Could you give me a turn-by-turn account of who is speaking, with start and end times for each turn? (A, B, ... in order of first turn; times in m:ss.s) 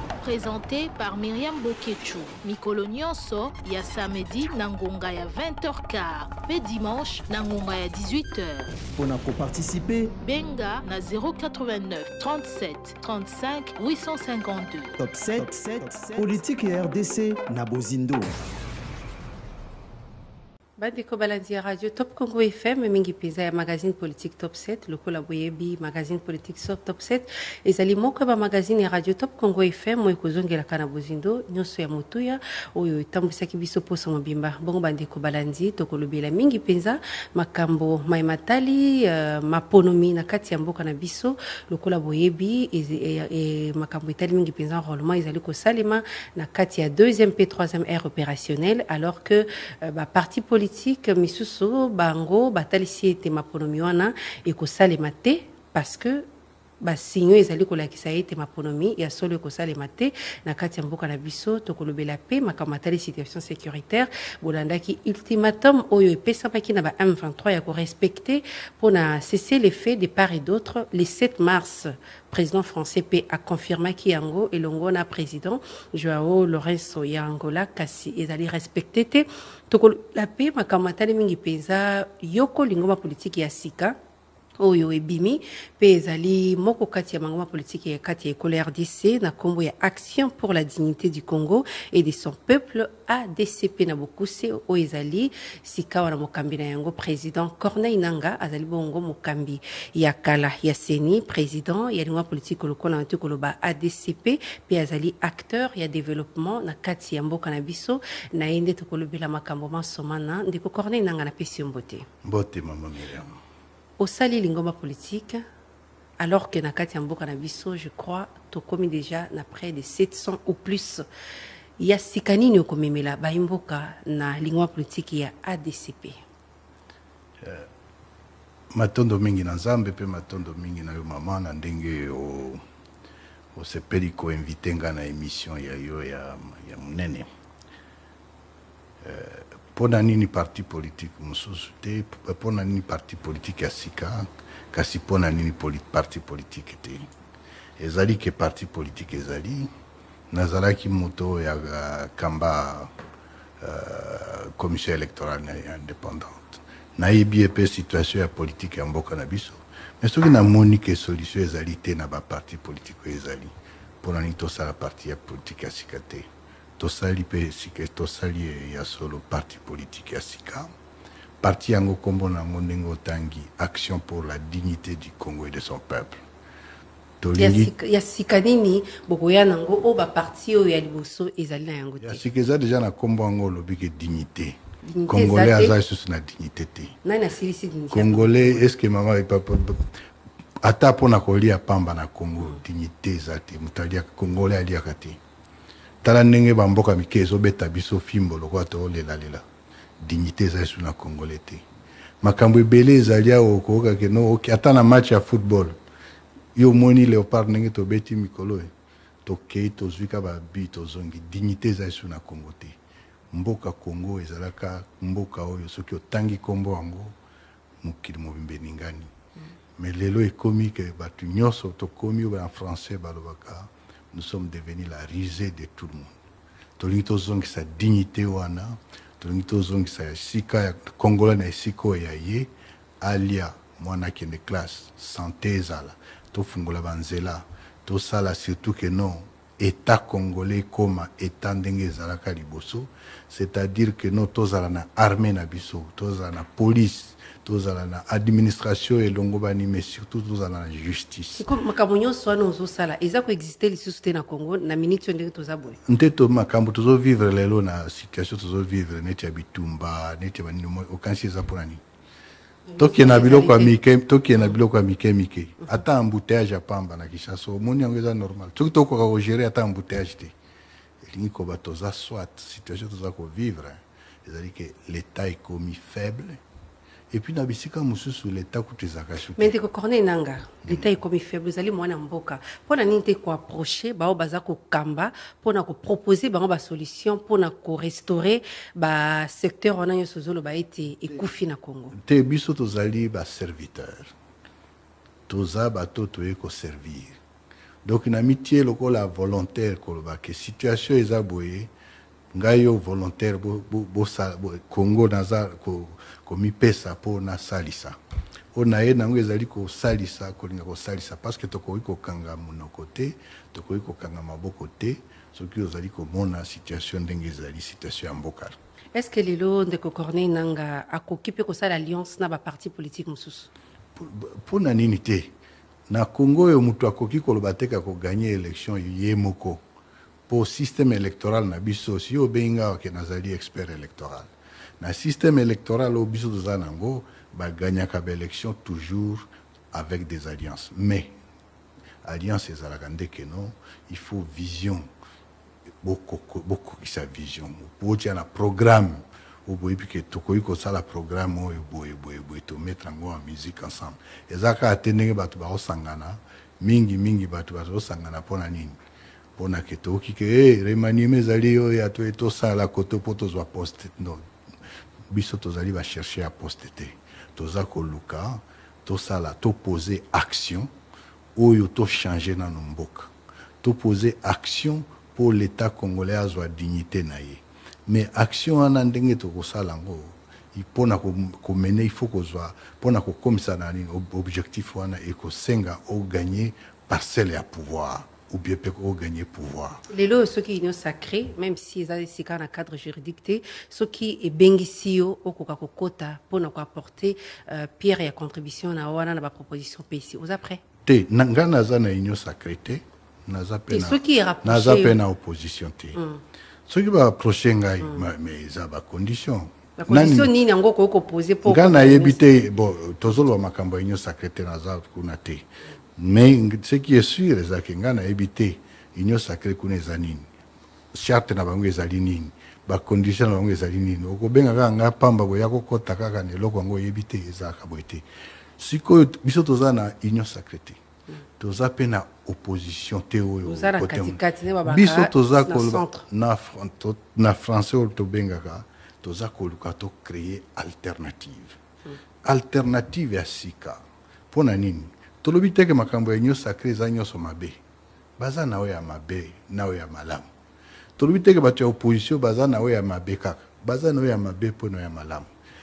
0:00.2-0:08.7 A
0:09.0-0:10.1 B
0:10.2-0:15.0 A
0:15.0-0:18.3 B
0:20.8-0:56.3 C
0:56.8-1:24.0 C
1:24.6-1:52.1 C
1:52.2-1:53.4 D
1:54.0-1:55.4 C
1:56.2-2:01.0 C
2:01.8-2:06.2 C
2:07.4-2:07.7 D
2:08.7-2:12.6 D
2:13.6-2:17.3 D
2:19.0-2:27.1 D
2:27.8-2:29.7 D
2:30.3-2:32.9 D
2:33.6-2:50.7 D
2:51.4-2:56.2 D
2:57.2-2:57.7 D
2:57.4-3:02.2 C
3:02.0-3:07.0 D
3:04.8-3:05.8 C
3:07.0-3:08.7 C
3:07.9-3:09.9 D
3:10.6-3:15.2 D
3:16.0-3:19.4 D
3:20.0-3:21.6 D
3:22.2-3:25.8 D
3:26.6-3:28.7 D
3:29.2-3:32.8 D
3:33.3-3:37.2 D
3:37.8-3:39.1 D
3:39.8-3:46.2 D
3:46.8-4:11.5 D
4:11.4-4:15.8 C
4:15.9-4:21.8 D
4:22.7-4:23.7 C
4:22.8-4:30.3 D
4:31.0-4:36.4 D
4:37.1-4:39.5 D
4:39.4-4:51.9 C
4:51.9-4:54.1 D
4:55.3-4:57.2 D
4:57.8-5:01.7 D
5:02.3-5:08.0 D
5:08.5-5:18.6 D
5:19.0-5:23.5 C
5:24.0-5:25.3 D
5:25.9-5:29.6 D
5:30.3-5:41.2 D
5:42.0-5:44.9 D
5:45.8-5:58.8 D
5:59.4-6:04.2 D
6:05.1-6:10.7 D
6:11.4-6:13.1 D
6:13.6-6:29.8 D
6:29.9-6:40.6 C
6:40.9-6:46.0 D
6:43.7-6:45.0 C
6:46.7-6:50.3 D
6:49.8-6:52.2 C
6:51.4-6:55.5 D
6:56.0-7:00.3 D
7:00.9-7:08.0 D
7:08.6-7:10.8 D
7:11.4-7:21.6 D
7:13.4-7:16.0 C
7:22.2-7:27.6 D
7:28.2-7:30.3 D
7:31.0-7:35.3 D